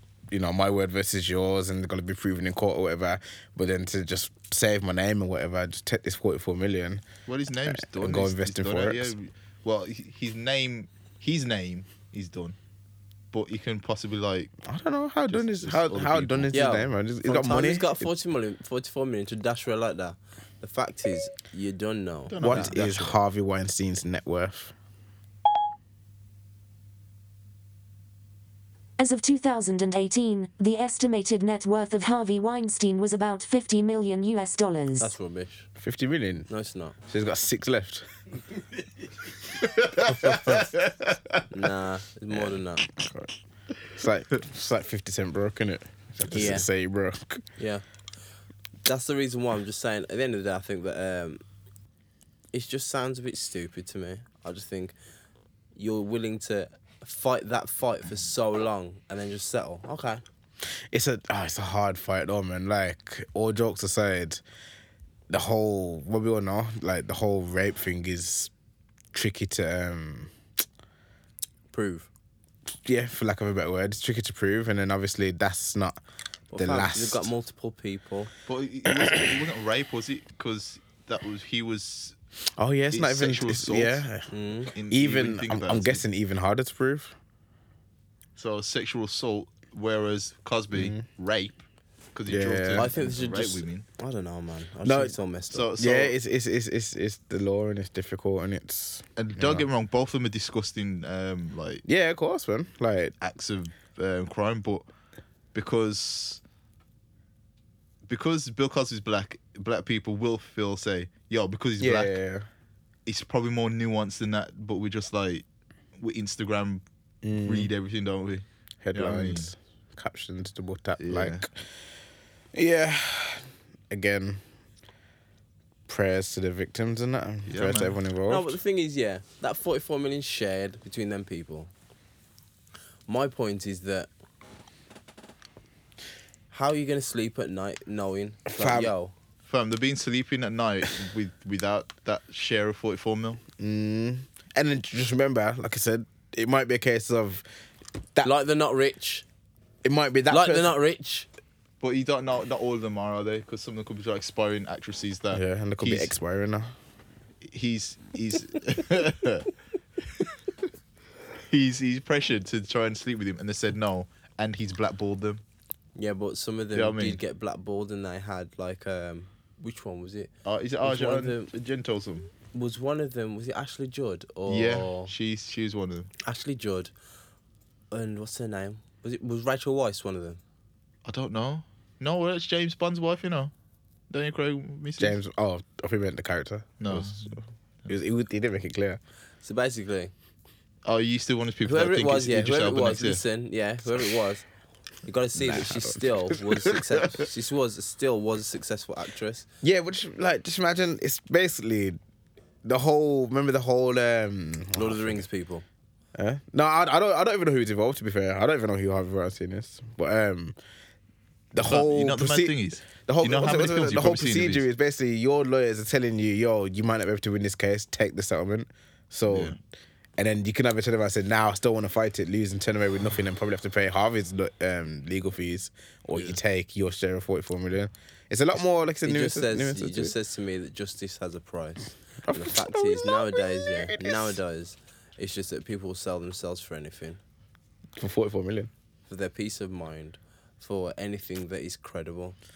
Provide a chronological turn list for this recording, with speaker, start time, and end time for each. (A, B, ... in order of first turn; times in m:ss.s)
0:00.3-0:07.0 A
0:07.3-0:12.6 B
0:07.7-0:09.1 A
0:13.3-0:14.5 B
0:14.6-0:18.1 A
0:15.3-0:16.5 B
0:16.5-0:23.2 C
0:22.3-0:22.9 B
0:22.4-0:24.7 A
0:29.0-0:35.1 D
0:35.0-0:35.7 C
0:35.8-0:36.5 A
0:36.5-0:37.0 C
0:37.1-0:38.1 A
0:39.8-0:41.2 B
0:41.5-0:42.9 C
0:42.3-0:43.3 A
0:43.9-0:47.4 A
0:46.3-0:46.7 C
0:47.6-0:47.8 C
0:48.8-0:51.4 C
0:52.5-0:55.0 C
0:55.8-1:00.2 C
1:00.9-1:04.4 A
1:05.3-1:08.5 A
1:09.1-1:10.3 A
1:11.7-1:12.1 C
1:12.8-1:16.0 A
1:16.5-1:18.3 C
1:16.6-1:17.3 A
1:18.5-1:22.2 B
1:18.9-1:19.3 A
1:22.6-1:24.3 A
1:22.9-1:24.1 B
1:24.3-1:24.7 C
1:24.7-1:26.0 B
1:24.9-1:27.2 A
1:28.4-1:31.6 B
1:30.7-1:31.0 A
1:32.2-1:33.8 B
1:32.3-1:32.9 A
1:32.8-1:35.7 C
1:34.8-1:35.2 A
1:35.5-1:36.2 B
1:35.8-1:39.7 A
1:39.2-1:41.8 B
1:41.8-1:43.1 A
1:43.2-1:44.8 B
1:45.5-1:46.4 B
1:48.1-1:52.2 B
1:51.8-1:52.5 A
1:53.1-1:55.4 B
1:56.0-1:59.5 B
1:57.2-1:57.7 A
1:58.8-2:01.5 A
2:01.0-2:01.4 B
2:02.5-2:04.4 A
2:05.9-2:08.6 A
2:07.5-2:08.0 B
2:08.3-2:11.7 C
2:13.1-2:14.1 C
2:16.5-2:19.1 C
2:18.5-2:18.9 A
2:19.5-2:23.4 B
2:23.6-2:27.4 A
2:28.2-2:29.2 C
2:29.8-2:30.7 A
2:30.3-2:31.3 C
2:31.8-2:36.1 B
2:35.3-2:36.7 A
2:37.5-2:39.5 B
2:41.5-2:45.4 B
2:46.0-2:50.3 C
2:46.7-2:47.2 B
2:50.4-2:52.3 B
2:50.8-2:51.5 C
2:52.5-2:55.1 C
2:54.5-2:56.1 B
2:56.2-2:56.9 C
2:57.9-3:00.4 C
3:01.1-3:03.5 B
3:04.1-3:05.2 B
3:05.0-3:09.0 A
3:06.8-3:07.4 B
3:09.4-3:10.1 C
3:10.8-3:13.2 B
3:11.6-3:14.4 C
3:15.0-3:19.5 C
3:15.4-3:16.5 A
3:19.6-3:22.0 A
3:22.6-3:25.2 A
3:24.8-3:25.6 C
3:26.2-3:30.6 A
3:31.5-3:39.6 A
3:31.6-3:34.6 B
3:39.3-3:39.6 B
3:40.2-3:50.2 A
3:49.0-3:57.2 C
3:52.3-3:54.4 A
3:58.0-3:58.7 A
3:59.1-4:02.4 C